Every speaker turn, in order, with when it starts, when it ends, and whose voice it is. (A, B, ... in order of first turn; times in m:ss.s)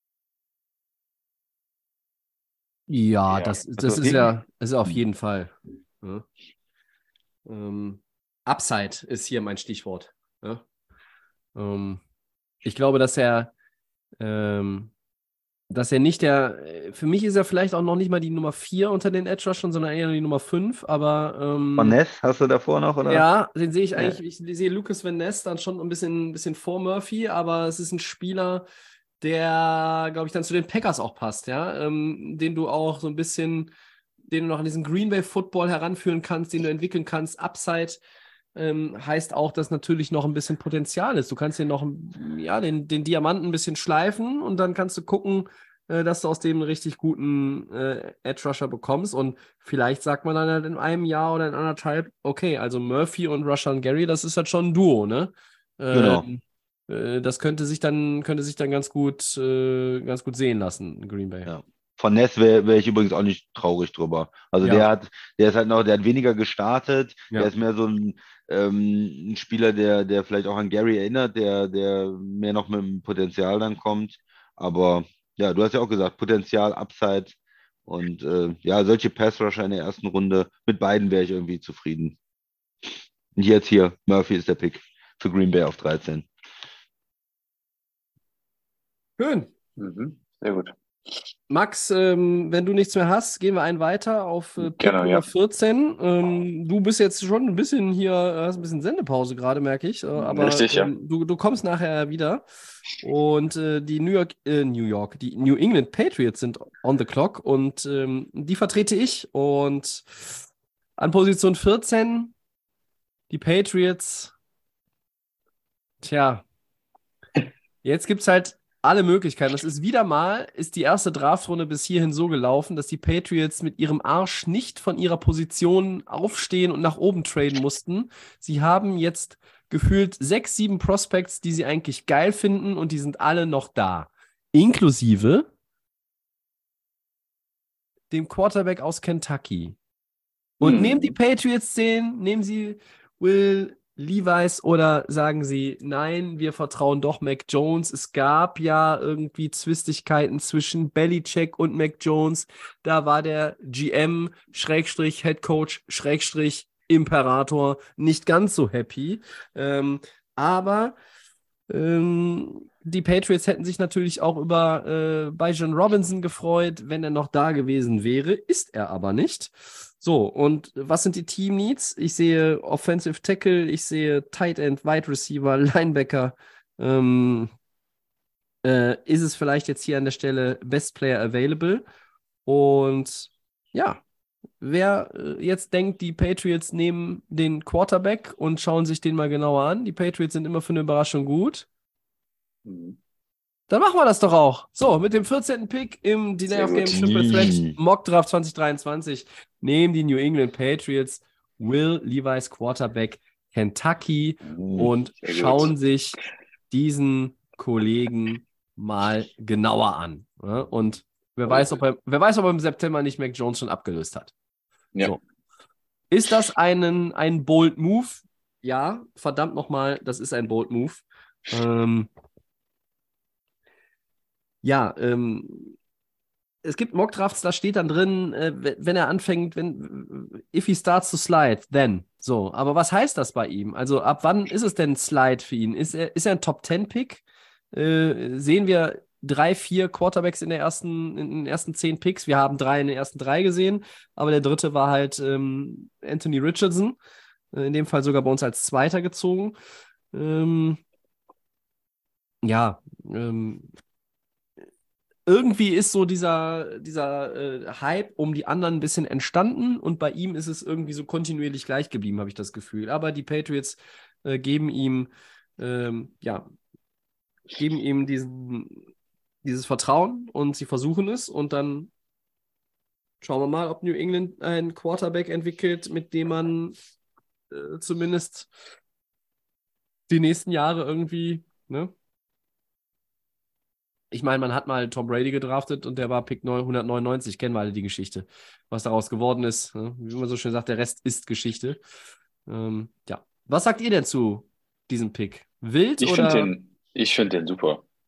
0:02.9-0:06.3 A
0:03.7-0:04.3 B
0:07.4-0:10.6 A
0:11.6-0:12.0 A
0:12.6-0:13.5 A
0:14.2-0:14.9 A
0:15.7-0:22.0 A
0:21.8-0:23.3 B
0:23.1-0:28.6 A
0:29.2-0:33.7 A
0:34.3-0:38.0 A
0:38.6-1:01.5 A
0:55.9-0:56.3 B
1:01.4-1:22.2 B
1:23.4-1:26.3 B
1:29.2-1:29.5 A
1:29.8-1:30.7 C
1:31.5-1:42.4 A
1:34.6-1:35.3 C
1:40.2-1:40.9 C
1:43.0-1:50.4 A
1:51.0-1:52.3 A
1:53.3-1:54.3 A
1:56.0-1:56.4 A
1:57.8-2:15.5 A
2:18.1-2:19.8 A
2:20.6-2:21.1 C
2:20.6-2:41.0 A
2:41.7-2:57.5 A
2:58.6-3:01.8 A
3:02.4-3:04.0 A
3:04.6-3:11.6 A
3:12.6-3:13.0 C
3:13.7-3:26.2 A
3:16.5-3:17.0 C
3:16.8-3:17.8 B
3:24.6-3:24.9 B
3:25.2-3:25.7 C
3:26.7-3:34.3 A
3:36.1-3:42.1 A
3:44.6-3:45.8 A
3:46.6-4:07.0 A
4:07.5-4:09.6 A
4:10.1-4:10.8 A
4:12.4-4:13.7 A
4:15.3-4:26.4 A
4:27.6-4:28.8 A
4:29.4-4:31.9 A
4:33.2-4:36.7 A
4:37.5-4:38.5 A
4:40.1-4:41.9 A
4:44.1-4:51.8 A
4:52.5-4:56.5 A
4:56.0-4:57.8 C